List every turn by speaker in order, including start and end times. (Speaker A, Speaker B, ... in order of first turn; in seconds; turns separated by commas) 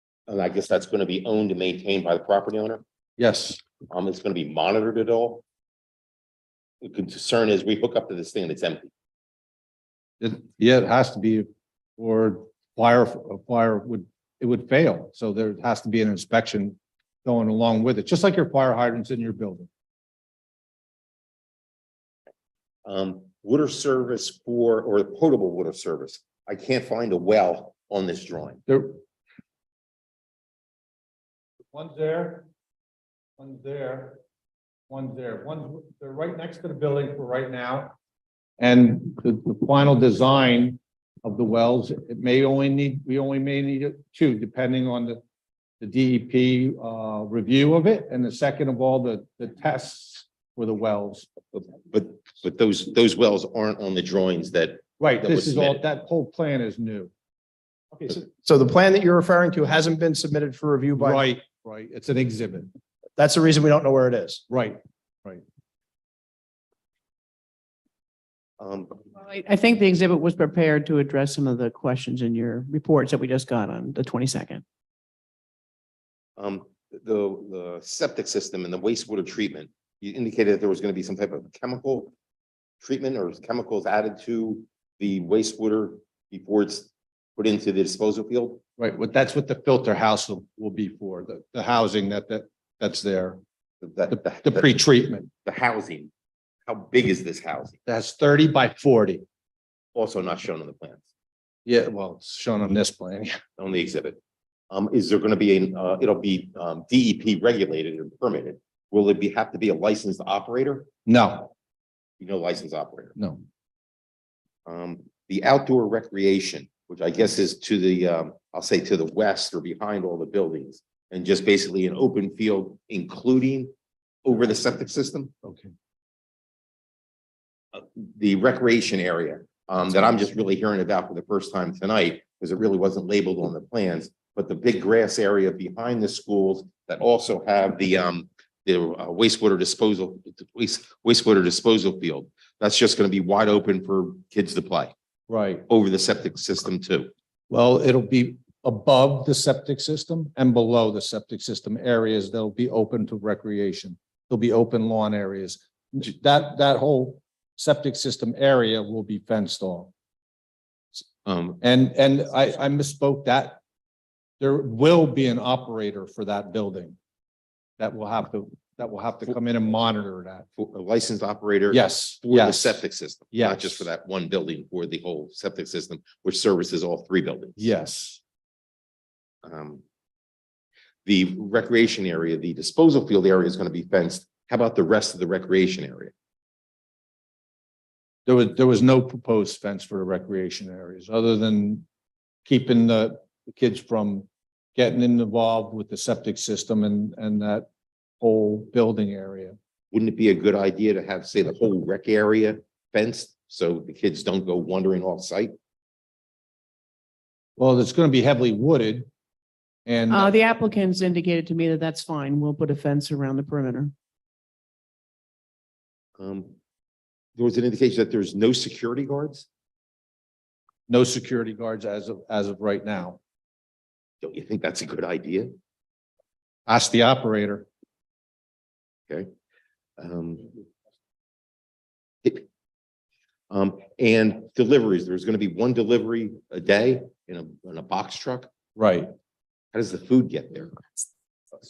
Speaker A: 0.3-2.8, Speaker B: 3.2-3.6, Speaker A: 3.9-5.4, Speaker A: 6.8-8.9, Speaker B: 10.2-19.7, Speaker A: 22.9-28.6, Speaker B: 28.7-29.0, Speaker B: 31.7-32.5, Speaker B: 33.4-34.2, Speaker B: 34.9-38.0, Speaker B: 38.6-45.2, Speaker B: 45.8-51.3, Speaker A: 51.5-55.8, Speaker B: 55.0-57.1, Speaker C: 58.0-61.2, Speaker B: 61.0-62.7, Speaker C: 63.2-64.4, Speaker B: 64.5-65.4, Speaker A: 68.6-69.0, Speaker D: 69.2-74.6, Speaker A: 76.4-82.1, Speaker A: 82.8-88.6, Speaker B: 88.8-93.4, Speaker A: 93.8-94.7, Speaker B: 94.1-95.3, Speaker A: 95.4-96.1, Speaker A: 96.7-97.8, Speaker B: 97.9-99.2, Speaker A: 100.0-101.0, Speaker B: 101.7-103.3, Speaker A: 103.6-104.2, Speaker A: 104.7-110.9, Speaker B: 111.1-111.5, Speaker A: 112.2-113.2, Speaker B: 113.2-113.4, Speaker A: 114.7-123.7, Speaker A: 124.2-125.3, Speaker B: 125.4-125.7, Speaker A: 127.7-144.9, Speaker B: 145.3-145.6, Speaker A: 145.7-147.1, Speaker B: 147.5-159.9, Speaker A: 161.2-161.6, Speaker B: 161.6-163.6, Speaker B: 164.4-167.0, Speaker B: 167.8-170.5, Speaker A: 170.6-177.7, Speaker B: 171.7-172.8, Speaker B: 173.3-173.9, Speaker B: 177.6-178.2, Speaker A: 179.4-179.8, Speaker A: 181.1-186.1, Speaker B: 188.3-191.8, Speaker B: 192.5-197.7, Speaker B: 198.2-199.6, Speaker A: 199.9-205.6, Speaker B: 207.6-209.1, Speaker B: 209.9-210.3, Speaker D: 210.1-213.9, Speaker A: 216.2-216.5, Speaker A: 217.3-219.5, Speaker B: 220.9-223.2, Speaker A: 224.2-225.6, Speaker B: 226.7-227.7, Speaker A: 230.0-230.5, Speaker A: 233.5-238.5, Speaker B: 238.8-239.1, Speaker A: 239.7-241.0